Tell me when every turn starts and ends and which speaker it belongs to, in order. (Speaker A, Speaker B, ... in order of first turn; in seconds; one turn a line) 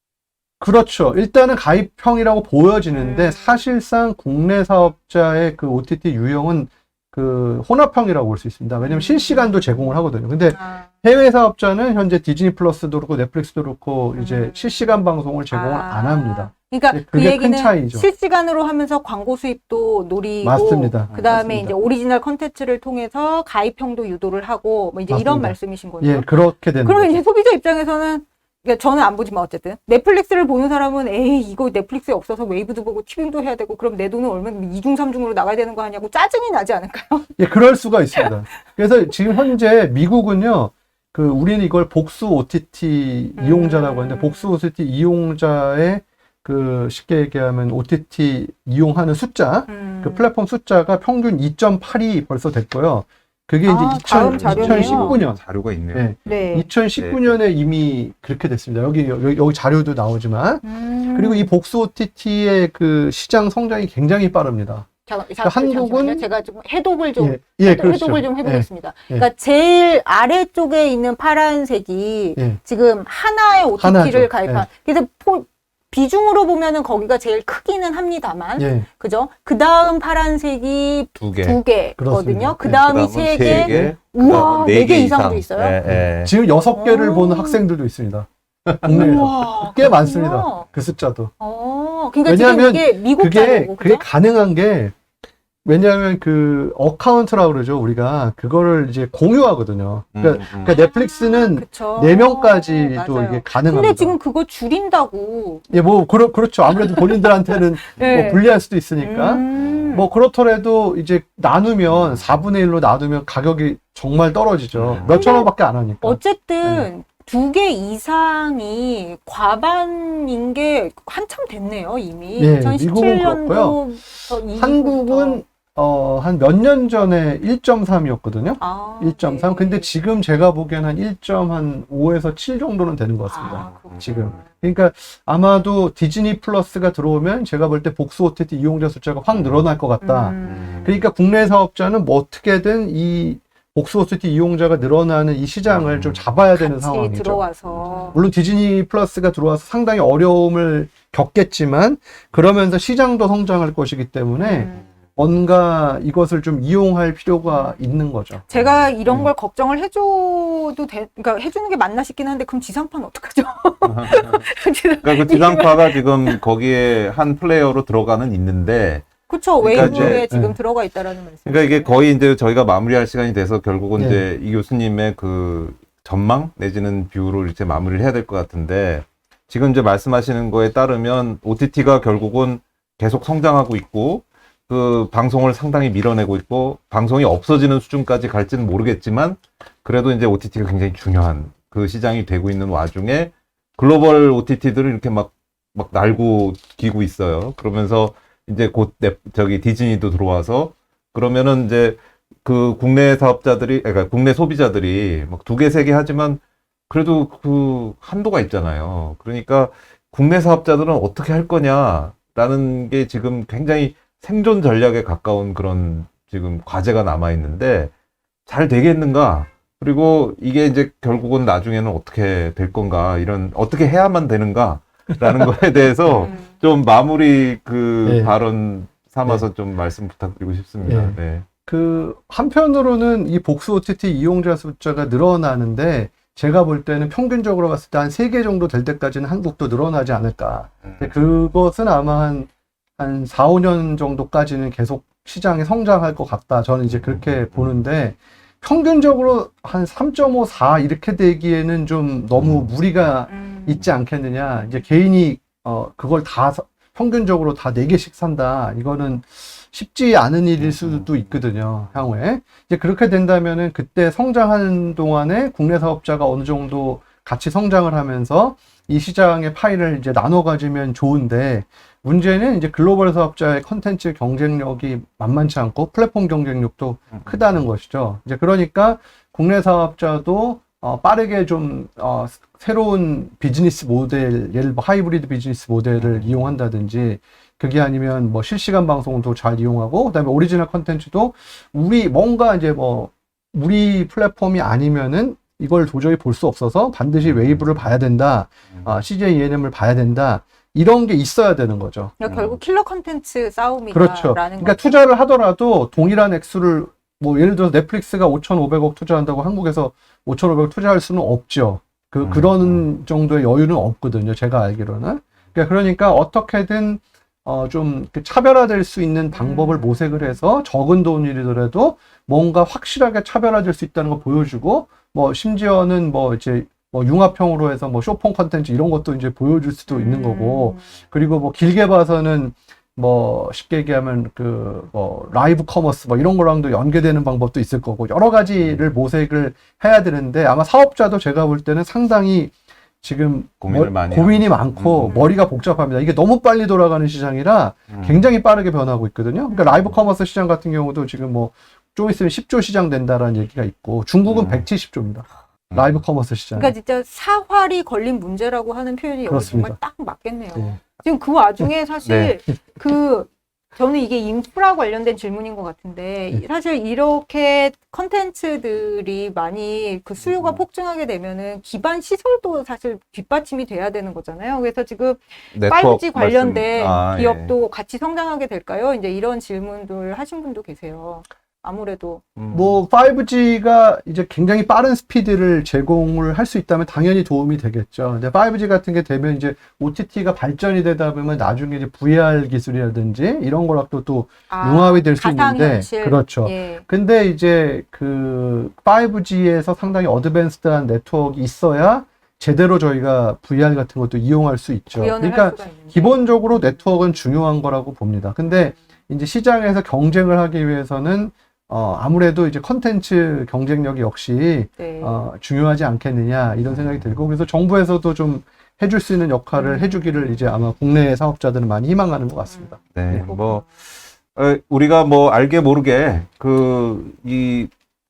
Speaker A: 0.6-18.1
Speaker B: 2.9-3.6
Speaker B: 8.8-10.9
Speaker B: 14.1-37.4
Speaker A: 20.4-21.8
Speaker C: 21.1-21.4
Speaker A: 25.1-27.2
Speaker A: 37.4-60.6
Speaker B: 43.4-44.5
Speaker B: 49.7-50.3
Speaker B: 53.6-55.2
Speaker C: 54.1-57.4
Speaker B: 56.2-56.7
Speaker B: 60.6-61.5
Speaker A: 61.1-64.9
Speaker B: 65.0-85.8
Speaker A: 65.4-66.2
Speaker A: 67.2-69.3
Speaker A: 73.8-74.7
Speaker A: 78.6-78.8
Speaker C: 81.2-81.6
Speaker A: 82.0-82.8
Speaker C: 82.6-86.3
Speaker A: 83.4-83.9
Speaker A: 85.8-88.3
Speaker B: 86.7-87.6
Speaker C: 88.7-89.3
Speaker A: 88.8-91.3
Speaker B: 88.8-90.7
Speaker B: 91.4-94.0
Speaker A: 92.2-94.9
Speaker A: 95.6-104.2
Speaker C: 100.1-100.8
Speaker B: 100.5-105.7
Speaker A: 105.7-116.9
Speaker B: 106.7-108.4
Speaker B: 109.0-110.1
Speaker C: 109.5-110.0
Speaker C: 111.9-112.4
Speaker C: 114.7-115.2
Speaker B: 115.0-125.4
Speaker A: 122.4-147.4
Speaker B: 128.6-129.9
Speaker B: 133.3-134.4
Speaker C: 133.5-134.4
Speaker C: 139.3-139.7
Speaker B: 140.0-140.8
Speaker C: 140.4-141.0
Speaker C: 145.7-146.3
Speaker B: 146.5-148.2
Speaker C: 147.7-148.1
Speaker A: 148.1-158.4
Speaker B: 154.4-154.9
Speaker B: 157.5-157.8
Speaker B: 158.5-166.4
Speaker C: 163.8-164.5
Speaker C: 165.0-169.1
Speaker B: 169.3-172.0
Speaker C: 169.6-170.2
Speaker A: 169.7-170.5
Speaker C: 171.4-217.9
Speaker A: 173.9-174.2
Speaker C: 218.5-231.4
Speaker A: 226.0-226.3
Speaker B: 226.1-226.5
Speaker A: 228.0-228.3
Speaker A: 230.8-302.1
Speaker C: 240.8-241.1
Speaker C: 246.9-247.8
Speaker C: 252.4-252.7
Speaker B: 253.3-253.8
Speaker C: 260.6-261.1
Speaker C: 277.2-277.5
Speaker C: 286.0-286.5
Speaker C: 297.2-297.6
Speaker B: 302.2-304.9
Speaker C: 302.2-302.6
Speaker A: 303.9-356.7
Speaker C: 312.2-312.9
Speaker B: 319.3-320.4
Speaker B: 329.9-330.8
Speaker C: 343.6-345.2
Speaker B: 345.1-345.9
Speaker C: 347.9-348.2
Speaker B: 349.5-349.9
Speaker C: 354.2-354.6
Speaker C: 355.7-356.0
Speaker B: 356.5-382.2
Speaker A: 359.3-359.8
Speaker C: 362.0-362.4
Speaker C: 370.2-370.6
Speaker C: 375.5-377.5
Speaker C: 382.4-382.8
Speaker A: 382.5-423.3
Speaker B: 394.5-396.8
Speaker B: 404.9-406.9
Speaker B: 414.8-415.2
Speaker B: 419.5-420.6
Speaker B: 422.5-423.6
Speaker C: 422.9-423.7
Speaker C: 424.3-427.7